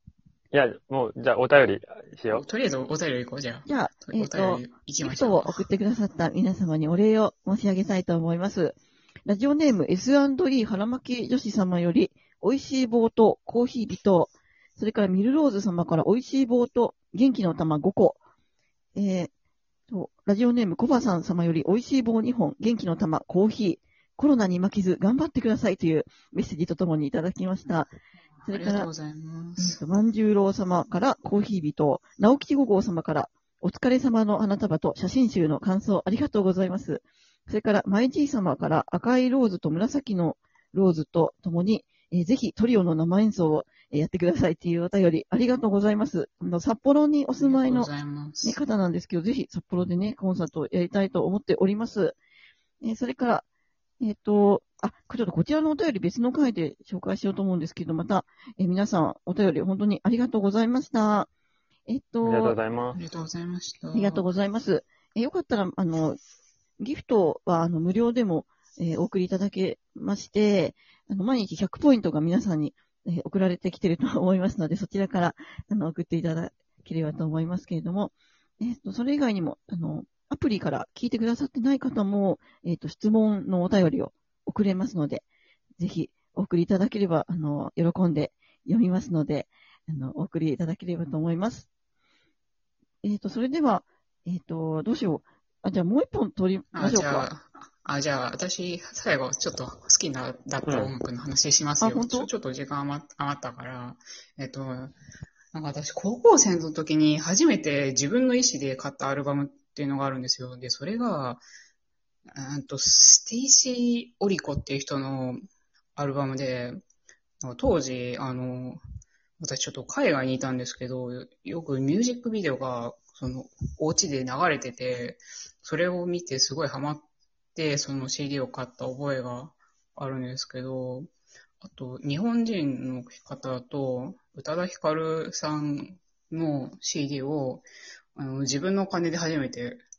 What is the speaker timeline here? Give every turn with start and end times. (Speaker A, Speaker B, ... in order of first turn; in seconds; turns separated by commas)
Speaker A: 0.5-2.4, Speaker B: 2.3-5.7, Speaker C: 3.7-18.2, Speaker C: 18.9-19.3, Speaker C: 19.9-27.9, Speaker B: 28.4-29.8, Speaker C: 28.5-28.9, Speaker C: 29.6-47.9, Speaker B: 47.4-48.6, Speaker C: 48.4-52.2, Speaker C: 52.8-53.5, Speaker C: 54.0-61.3, Speaker C: 61.9-62.6, Speaker A: 62.2-63.0, Speaker B: 63.0-64.2, Speaker C: 63.9-66.2, Speaker C: 66.8-85.2, Speaker C: 85.8-91.7, Speaker C: 93.0-97.3, Speaker B: 96.7-105.0, Speaker A: 100.7-100.9, Speaker C: 101.8-102.3, Speaker B: 105.5-111.4, Speaker B: 112.3-115.4, Speaker B: 116.0-116.8, Speaker B: 117.4-118.8, Speaker B: 119.4-131.1, Speaker B: 131.6-139.8